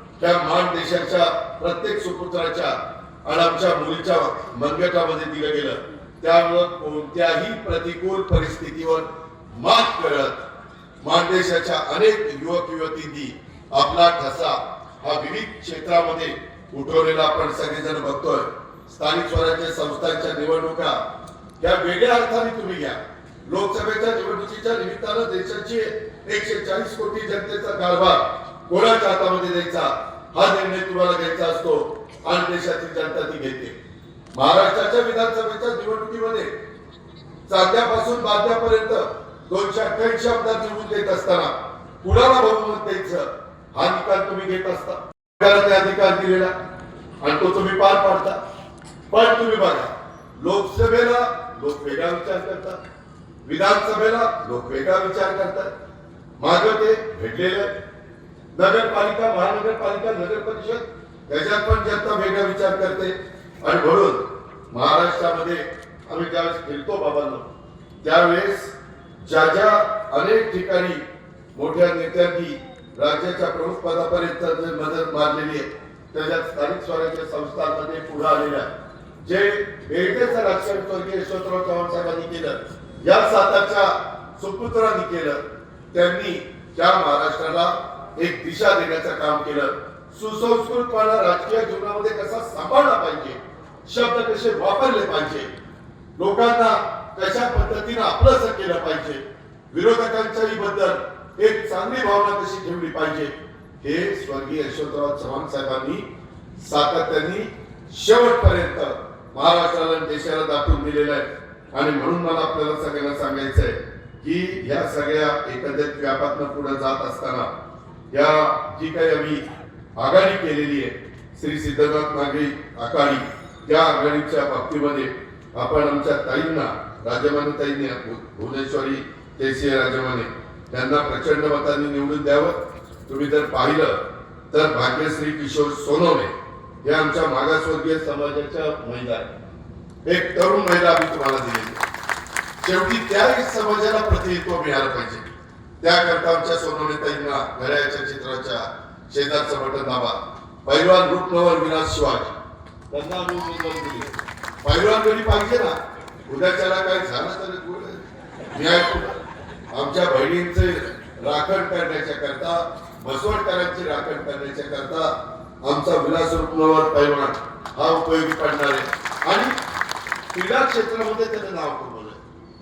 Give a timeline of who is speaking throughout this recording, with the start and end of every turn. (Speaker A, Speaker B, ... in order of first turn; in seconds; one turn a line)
Speaker A: 0.2-10.4
Speaker A: 11.0-21.0
Speaker A: 21.6-33.8
Speaker A: 34.3-36.5
Speaker A: 37.5-46.5
Speaker A: 47.2-48.4
Speaker A: 49.1-52.8
Speaker A: 53.4-55.7
Speaker A: 56.4-57.7
Speaker A: 58.5-67.5
Speaker A: 68.0-71.0
Speaker A: 71.5-78.7
Speaker A: 79.2-85.4
Speaker A: 85.9-95.5
Speaker A: 96.2-106.1
Speaker A: 106.6-117.5
Speaker A: 118.1-119.4
Speaker A: 120.0-134.0
Speaker A: 134.5-139.3
Speaker A: 140.1-141.8
Speaker A: 142.6-145.3
Speaker A: 145.8-152.4
Speaker A: 152.9-155.7
Speaker A: 156.3-158.0
Speaker A: 158.5-159.2
Speaker A: 159.7-165.1
Speaker A: 165.6-169.5
Speaker A: 170.3-172.2